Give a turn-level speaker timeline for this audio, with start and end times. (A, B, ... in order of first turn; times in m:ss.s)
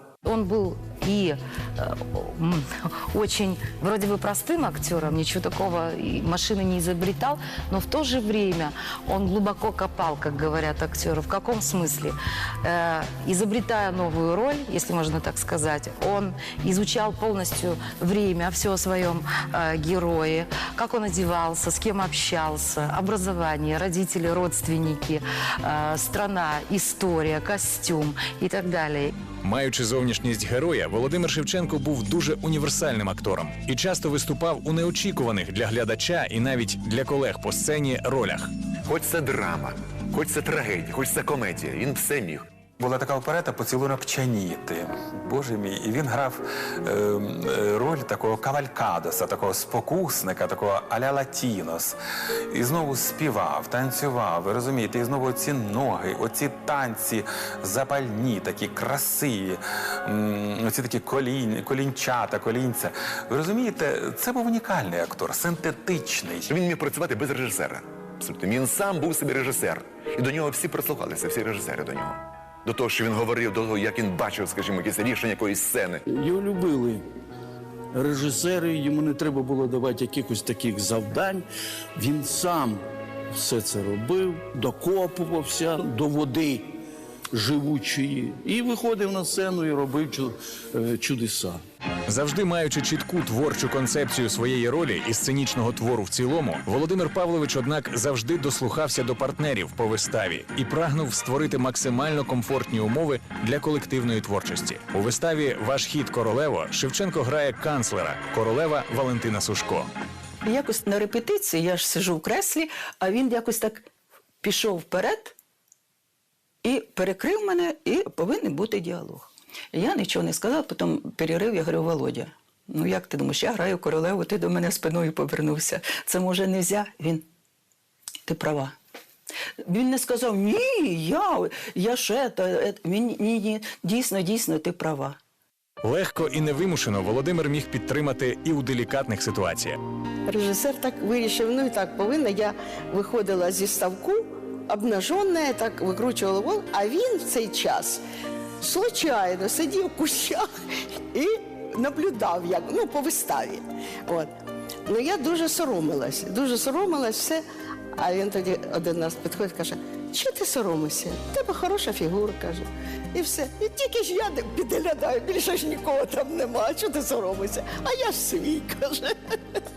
0:00.2-0:29.2 A
0:29.4-0:38.5 B
0:38.9-0:42.5 C
0:42.8-0:52.0 D
0:52.5-1:06.5 D
1:06.5-1:16.0 C
1:16.0-1:17.0 E
1:17.9-1:26.8 E
1:27.3-1:31.6 E
1:32.1-1:49.9 B
1:50.4-1:53.9 F
1:54.4-1:55.3 F
1:56.6-2:07.2 F
2:08.2-2:08.8 F
2:09.6-2:15.2 F
2:15.8-2:19.8 B
2:20.3-2:28.0 G
2:28.6-2:34.3 G
2:34.8-2:37.4 G
2:37.9-2:49.6 G